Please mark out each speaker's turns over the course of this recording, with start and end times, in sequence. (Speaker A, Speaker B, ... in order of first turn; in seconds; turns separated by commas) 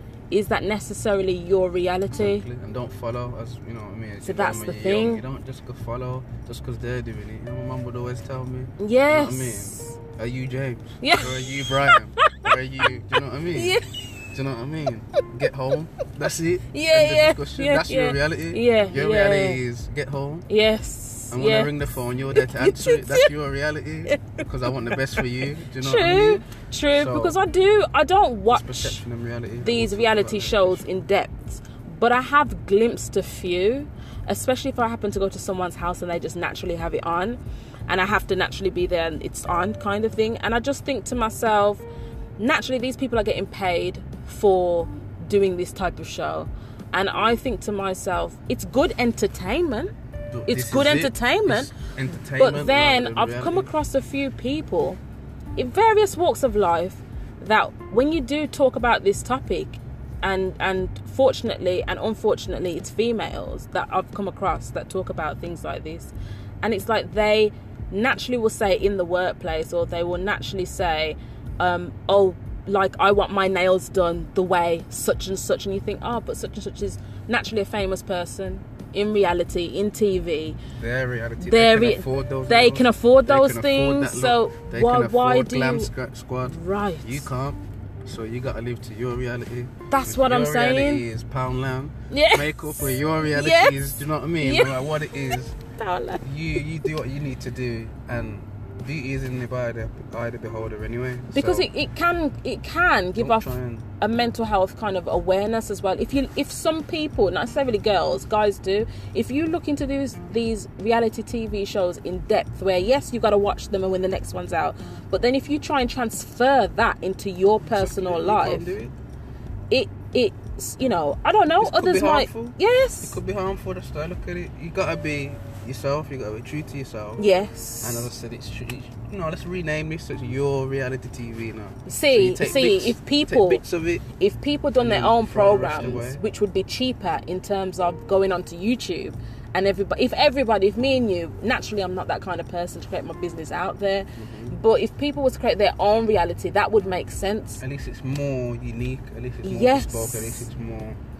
Speaker A: 0.3-2.4, Speaker B: 2.1-13.8, Speaker A: 4.2-5.2, Speaker A: 8.8-9.9, Speaker A: 11.0-12.9, Speaker A: 13.5-13.9, Speaker B: 14.3-20.5, Speaker A: 16.7-19.6, Speaker A: 20.5-21.7, Speaker B: 21.3-27.4, Speaker A: 22.3-23.3, Speaker A: 24.1-29.0, Speaker B: 28.5-30.9, Speaker A: 29.6-41.9, Speaker A: 42.4-49.9, Speaker B: 50.3-53.7, Speaker A: 50.5-51.7, Speaker A: 52.4-55.0, Speaker A: 55.6-80.6, Speaker B: 80.8-95.6, Speaker A: 81.4-85.9, Speaker A: 86.4-87.3, Speaker A: 89.9-91.0, Speaker A: 92.1-93.8, Speaker A: 94.4-94.8, Speaker A: 95.8-96.2, Speaker B: 96.2-101.7, Speaker A: 101.3-118.7, Speaker B: 103.2-103.9, Speaker B: 117.6-118.9, Speaker A: 119.7-123.2, Speaker B: 121.6-127.2, Speaker A: 127.2-128.1, Speaker B: 127.8-134.1, Speaker A: 131.9-133.6, Speaker A: 134.2-147.6, Speaker B: 134.8-136.2, Speaker B: 144.2-144.6, Speaker B: 147.6-151.0, Speaker A: 149.4-150.4